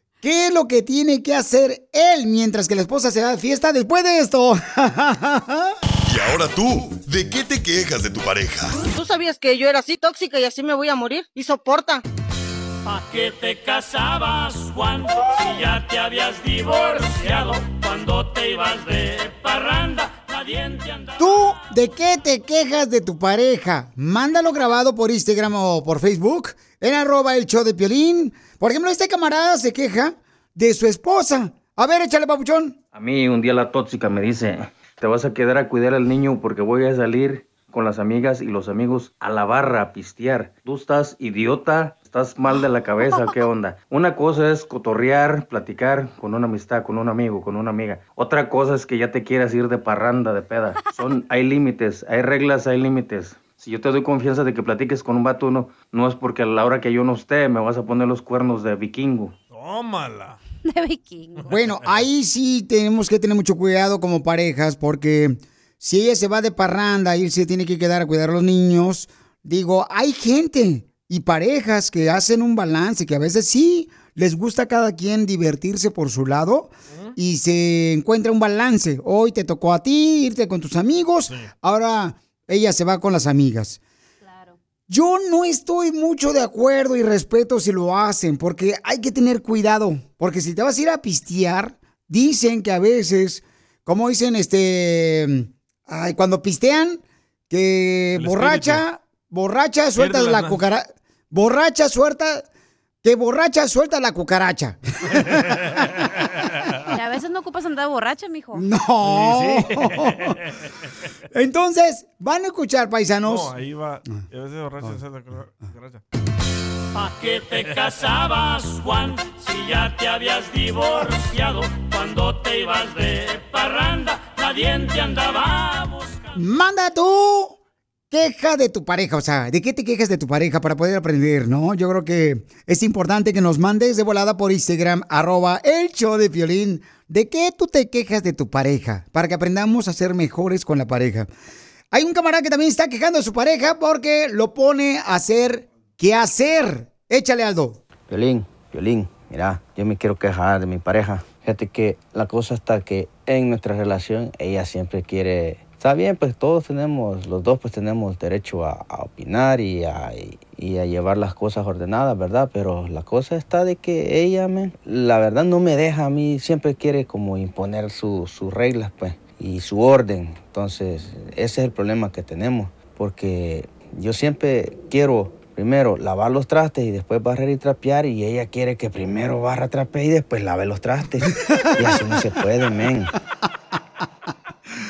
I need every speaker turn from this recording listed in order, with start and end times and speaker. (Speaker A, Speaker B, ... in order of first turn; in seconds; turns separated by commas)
Speaker A: 0.2-5.7, Speaker B: 6.0-8.8, Speaker C: 8.8-12.0, Speaker D: 12.8-21.6, Speaker A: 21.2-32.8, Speaker E: 32.9-59.3, Speaker F: 59.5-60.4, Speaker G: 60.6-61.5, Speaker F: 61.4-62.0, Speaker A: 61.5-83.8, Speaker G: 84.2-84.5, Speaker A: 84.9-102.5, Speaker F: 98.1-98.8, Speaker F: 100.0-100.6, Speaker A: 103.0-105.5, Speaker G: 106.9-108.7, Speaker A: 108.5-110.3, Speaker F: 109.0-110.4, Speaker A: 111.3-113.5, Speaker F: 113.2-116.0, Speaker D: 116.9-126.3, Speaker A: 126.3-127.6, Speaker A: 128.1-141.3, Speaker A: 141.9-147.8, Speaker E: 148.1-183.1, Speaker A: 181.5-182.1